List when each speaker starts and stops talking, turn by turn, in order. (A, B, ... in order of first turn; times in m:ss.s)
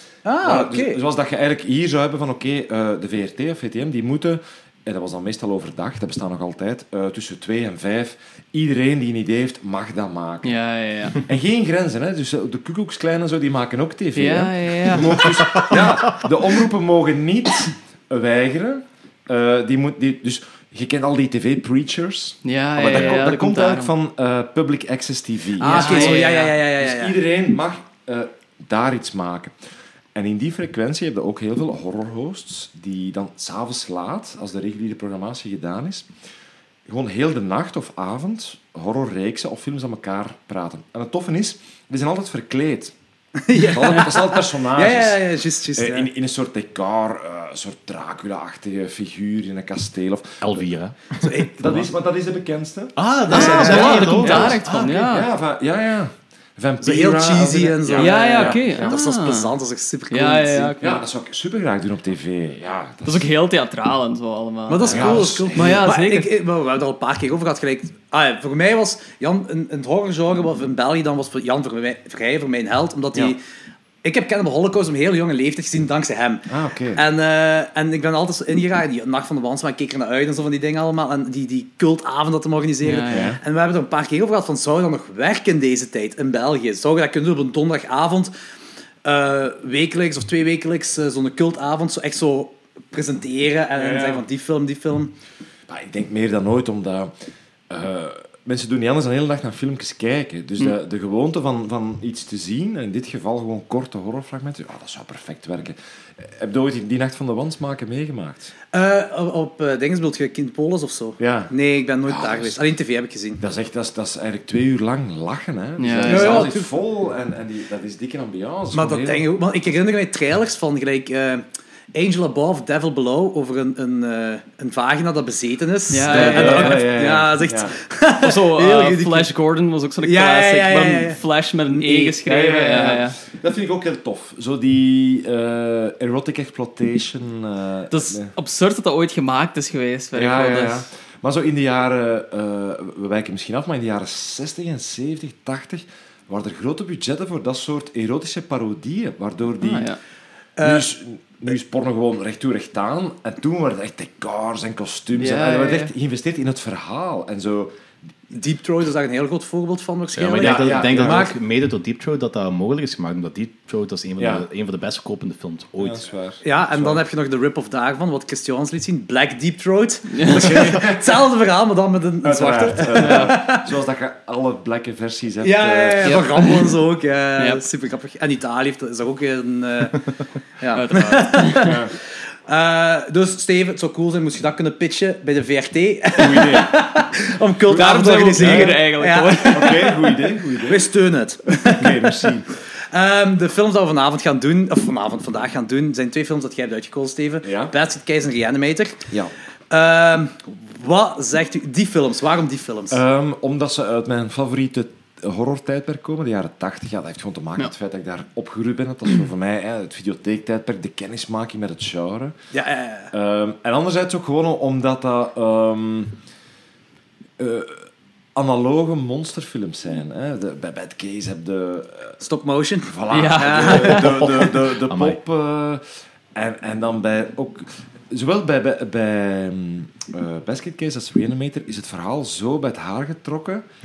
0:00.2-0:01.0 A
0:00.4-0:10.5 B
0:10.4-0:11.2 C
0:11.2-0:29.5 B
0:14.2-0:15.3 C
0:15.5-0:15.8 D
0:15.7-0:16.0 A
0:22.4-0:23.9 C
0:25.6-0:27.2 A
0:25.6-0:26.6 C
0:30.2-0:36.1 B
0:36.9-0:42.9 B
0:43.4-0:46.1 A
0:43.6-0:50.6 B
0:50.4-0:51.9 D
0:51.2-0:51.5 A
0:51.6-0:59.0 B
0:53.0-0:55.1 D
0:53.3-0:55.3 C
0:53.3-0:54.4 A
0:56.8-1:00.8 A
0:58.0-0:59.5 C
1:00.1-1:01.0 C
1:00.8-1:03.3 B
1:03.1-1:06.4 C
1:04.7-1:13.4 A
1:04.9-1:05.9 B
1:14.0-1:28.3 A
1:16.5-1:17.0 B
1:22.8-1:23.3 C
1:23.1-1:23.4 B
1:29.0-1:35.1 A
1:33.8-1:34.2 B
1:35.7-1:37.1 B
1:37.7-1:48.5 B
1:48.7-1:53.4 A
1:51.2-1:51.5 B
1:52.1-1:52.6 B
1:53.4-1:59.2 B
1:55.8-1:56.5 C
1:56.1-1:56.7 A
1:58.7-2:09.3 A
2:05.9-2:06.9 C
2:06.1-2:07.8 B
2:08.2-2:13.2 C
2:10.0-2:11.2 A
2:11.7-2:12.2 A
2:12.2-2:18.3 B
2:17.9-2:20.9 C
2:20.1-2:29.9 B
2:29.6-2:30.0 C
2:30.6-2:30.9 A
2:30.6-2:37.7 B
2:35.2-2:35.9 C
2:38.3-2:41.4 A
2:40.2-2:46.1 D
2:40.4-2:41.3 B
2:44.2-2:44.4 B
2:45.8-2:47.0 B
2:46.4-2:53.7 A
2:50.1-2:50.6 C
2:50.3-2:51.0 B
2:52.2-2:56.2 B
2:53.0-2:53.3 C
2:55.4-3:00.0 A
2:56.0-2:56.8 C
3:00.6-3:01.8 A
3:00.7-3:01.7 C
3:01.6-3:01.9 B
3:02.5-3:12.3 A
3:06.2-3:06.7 B
3:07.7-3:08.8 B
3:07.7-3:09.9 C
3:09.5-3:10.9 B
3:11.5-3:12.5 B
3:12.9-3:19.0 A
3:17.4-3:17.7 B
3:19.7-3:23.0 A
3:22.9-3:32.4 B
3:32.5-3:33.1 A
3:33.1-3:36.2 B
3:37.4-3:42.2 B
3:42.2-3:44.3 A
3:42.9-3:45.8 B
3:43.1-3:44.2 C
3:44.4-3:45.2 D
3:46.4-3:53.6 B